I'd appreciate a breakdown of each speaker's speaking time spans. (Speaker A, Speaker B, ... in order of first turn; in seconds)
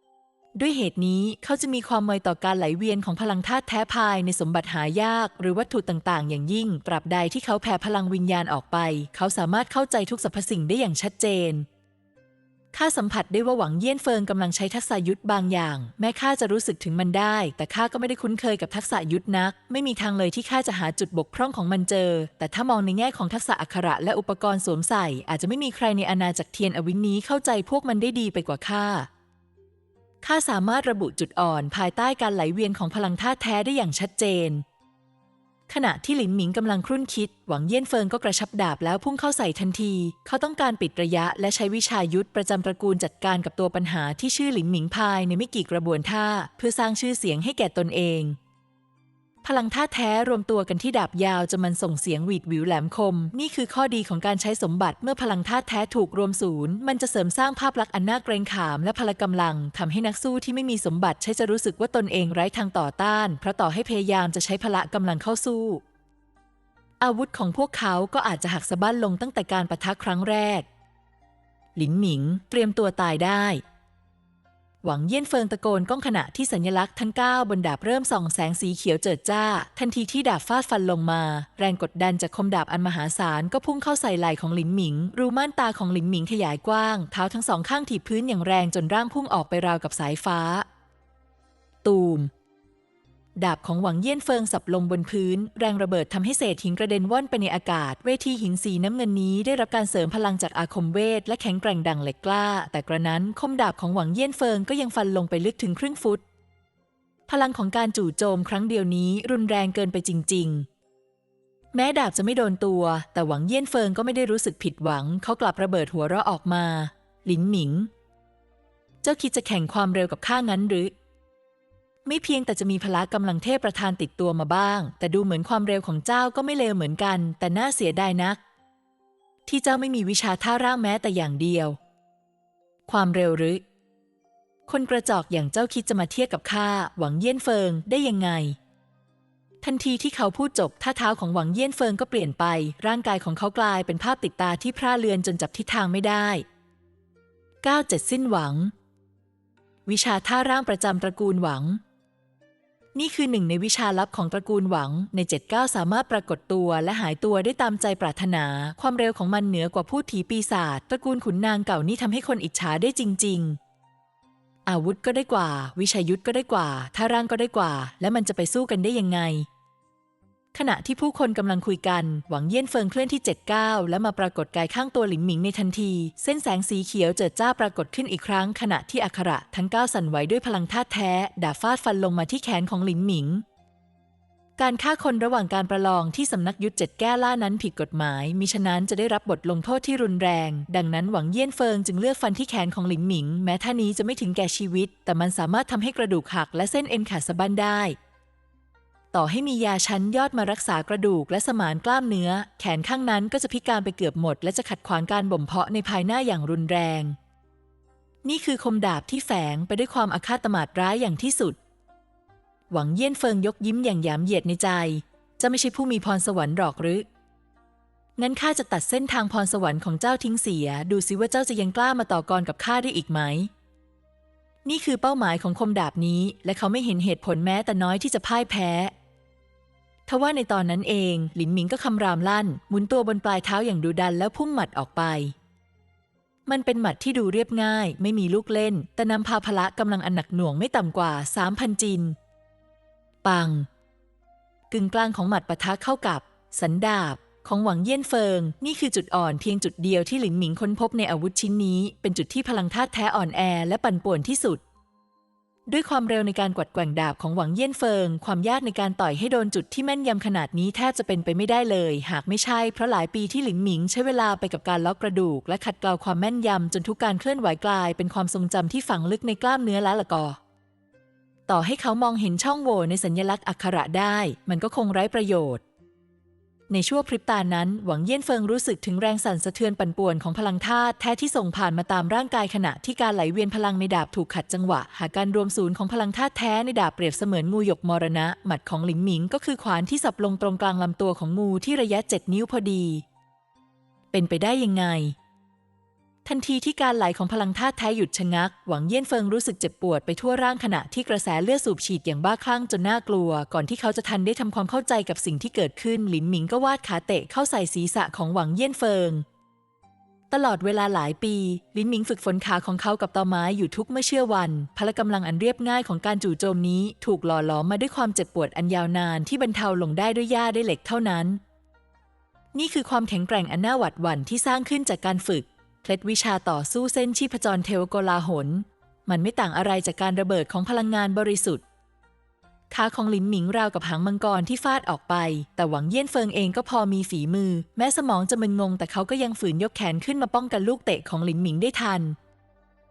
Speaker A: 0.6-11.7, 12.7-29.1, 30.2-34.6, 35.7-48.4, 49.4-65.8, 67.0-70.7, 71.8-73.6, 74.8-90.7, 91.8-92.3, 93.4-106.2, 107.3-110.7, 111.7-117.9, 119.0-120.9, 122.0-128.4, 129.5-131.8, 132.9-133.6, 134.7-138.6, 139.6-146.4, 147.6-148.7, 149.9-151.8, 152.9-163.6, 164.7-169.5, 170.5-183.4, 184.6-198.0, 199.1-207.2, 208.2-211.6, 212.7-217.1, 218.2-223.5, 224.7-228.9, 230.1-235.3, 236.5-242.2, 243.2-243.7, 244.7-254.6, 255.7-270.4, 271.5-275.6, 276.7-293.0, 294.1-295.2, 296.2-309.2, 310.3-321.4, 322.5-331.6, 332.7-342.2